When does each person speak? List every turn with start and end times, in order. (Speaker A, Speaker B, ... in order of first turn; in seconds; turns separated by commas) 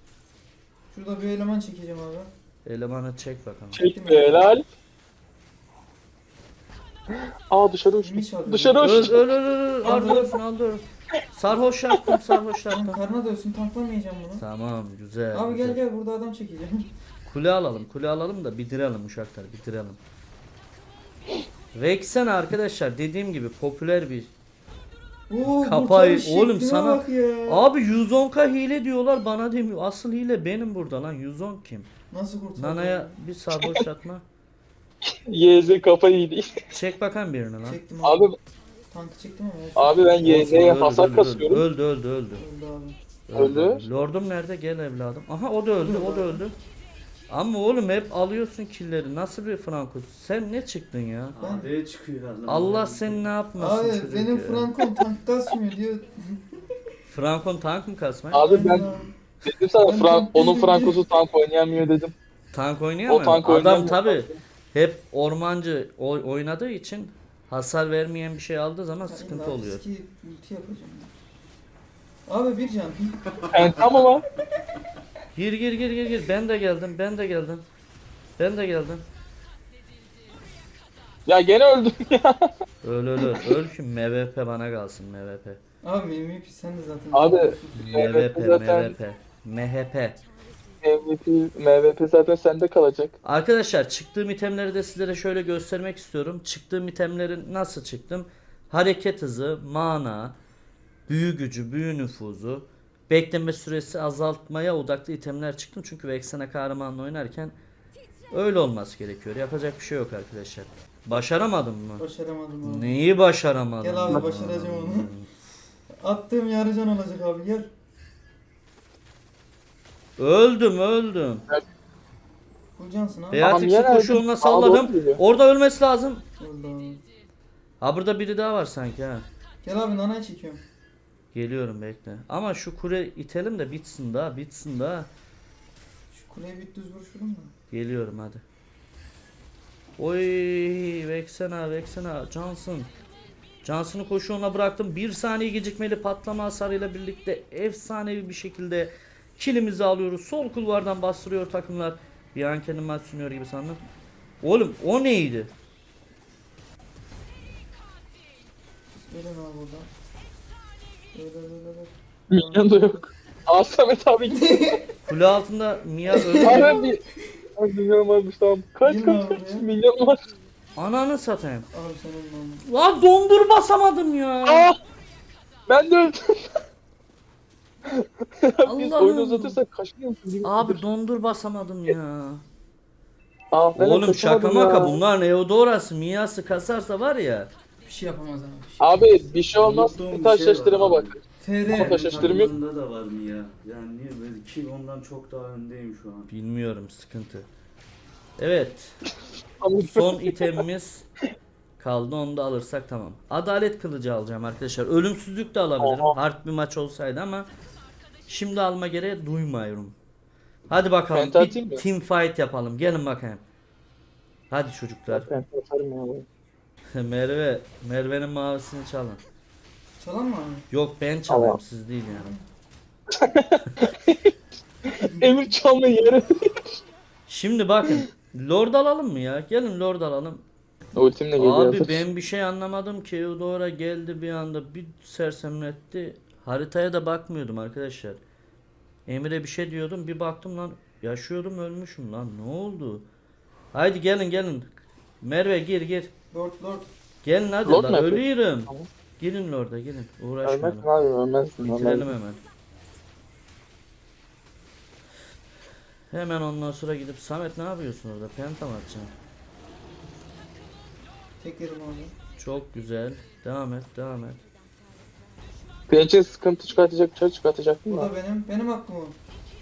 Speaker A: 0.9-2.3, Speaker B: 2.6-3.8, Speaker C: 3.7-4.6, Speaker A: 3.8-4.5, Speaker C: 7.1-9.3, Speaker A: 8.0-9.0, Speaker B: 8.8-13.0, Speaker A: 9.8-10.4, Speaker A: 12.7-14.4, Speaker B: 14.4-15.8, Speaker A: 15.3-16.9, Speaker B: 17.2-20.0, Speaker B: 21.7-24.3, Speaker A: 25.3-27.7, Speaker B: 25.4-31.9, Speaker A: 32.1-33.2, Speaker B: 32.6-34.2, Speaker C: 33.5-33.8, Speaker C: 35.0-36.6, Speaker B: 36.7-37.8, Speaker A: 37.6-38.3, Speaker C: 38.0-38.4, Speaker A: 38.9-40.5, Speaker C: 39.8-41.6, Speaker B: 40.2-42.4, Speaker A: 42.4-43.0, Speaker B: 43.3-46.5, Speaker C: 43.3-43.8, Speaker A: 45.8-46.4, Speaker B: 47.3-51.4, Speaker D: 51.4-53.2, Speaker A: 51.4-51.7, Speaker B: 52.5-54.7, Speaker A: 53.5-56.7, Speaker B: 57.1-58.5, Speaker C: 58.3-58.9, Speaker A: 58.3-59.1, Speaker C: 59.4-62.1, Speaker A: 59.8-61.0, Speaker B: 62.5-69.8, Speaker C: 63.0-64.3, Speaker A: 69.1-71.1, Speaker A: 72.3-73.3, Speaker C: 73.5-74.2, Speaker B: 75.3-77.6, Speaker B: 78.4-79.0, Speaker C: 81.2-82.5, Speaker B: 82.8-85.6, Speaker A: 85.8-88.0, Speaker C: 87.1-88.9, Speaker B: 87.7-90.2, Speaker C: 90.8-93.1, Speaker B: 93.2-100.4, Speaker B: 101.1-107.5, Speaker B: 108.3-112.0, Speaker A: 112.0-113.0, Speaker B: 112.6-115.3, Speaker A: 113.8-115.1, Speaker A: 116.0-117.7, Speaker B: 120.2-121.5, Speaker A: 122.8-123.5, Speaker B: 123.3-126.2, Speaker C: 123.3-125.2, Speaker A: 126.4-127.0, Speaker B: 127.8-129.2, Speaker A: 129.6-130.6, Speaker B: 131.3-135.1, Speaker A: 136.1-137.5, Speaker B: 137.7-138.4, Speaker B: 140.0-142.9, Speaker B: 143.6-153.8, Speaker B: 154.4-155.5, Speaker A: 159.0-159.9, Speaker A: 161.1-162.7, Speaker C: 162.3-164.8, Speaker A: 164.3-164.8, Speaker B: 165.1-166.8, Speaker A: 166.1-166.8, Speaker C: 166.4-167.0, Speaker C: 167.6-170.2, Speaker A: 168.8-169.7, Speaker B: 170.8-171.7, Speaker A: 171.7-172.6, Speaker B: 172.6-174.7, Speaker C: 174.4-174.8, Speaker C: 175.7-176.6, Speaker C: 177.8-180.8, Speaker B: 178.6-179.6, Speaker B: 180.4-182.4, Speaker C: 183.5-185.0, Speaker B: 183.8-187.5, Speaker A: 187.8-189.2, Speaker C: 188.8-192.5, Speaker D: 189.6-191.2, Speaker A: 191.4-191.9, Speaker D: 191.8-196.3, Speaker B: 196.3-197.5, Speaker B: 198.4-199.0, Speaker C: 199.6-200.6, Speaker B: 199.8-201.1, Speaker B: 201.8-207.5, Speaker C: 205.8-206.2, Speaker B: 208.3-209.9, Speaker B: 210.7-213.4, Speaker C: 211.1-211.8, Speaker B: 214.5-215.3, Speaker C: 215.1-216.2, Speaker B: 216.9-219.2, Speaker A: 220.0-220.7, Speaker B: 220.7-222.3, Speaker C: 221.3-221.6, Speaker A: 222.1-222.4, Speaker C: 223.1-224.3, Speaker C: 224.8-226.8, Speaker A: 224.9-225.3, Speaker B: 227.3-230.4, Speaker C: 230.9-232.1, Speaker B: 231.3-238.2, Speaker B: 239.1-243.1, Speaker B: 243.7-246.1, Speaker A: 246.3-246.9, Speaker B: 247.2-250.9, Speaker C: 247.7-248.9, Speaker C: 250.4-252.1, Speaker B: 251.6-252.4, Speaker B: 256.1-259.1, Speaker A: 261.4-262.1, Speaker B: 262.4-264.4, Speaker C: 265.9-268.1, Speaker A: 267.9-269.2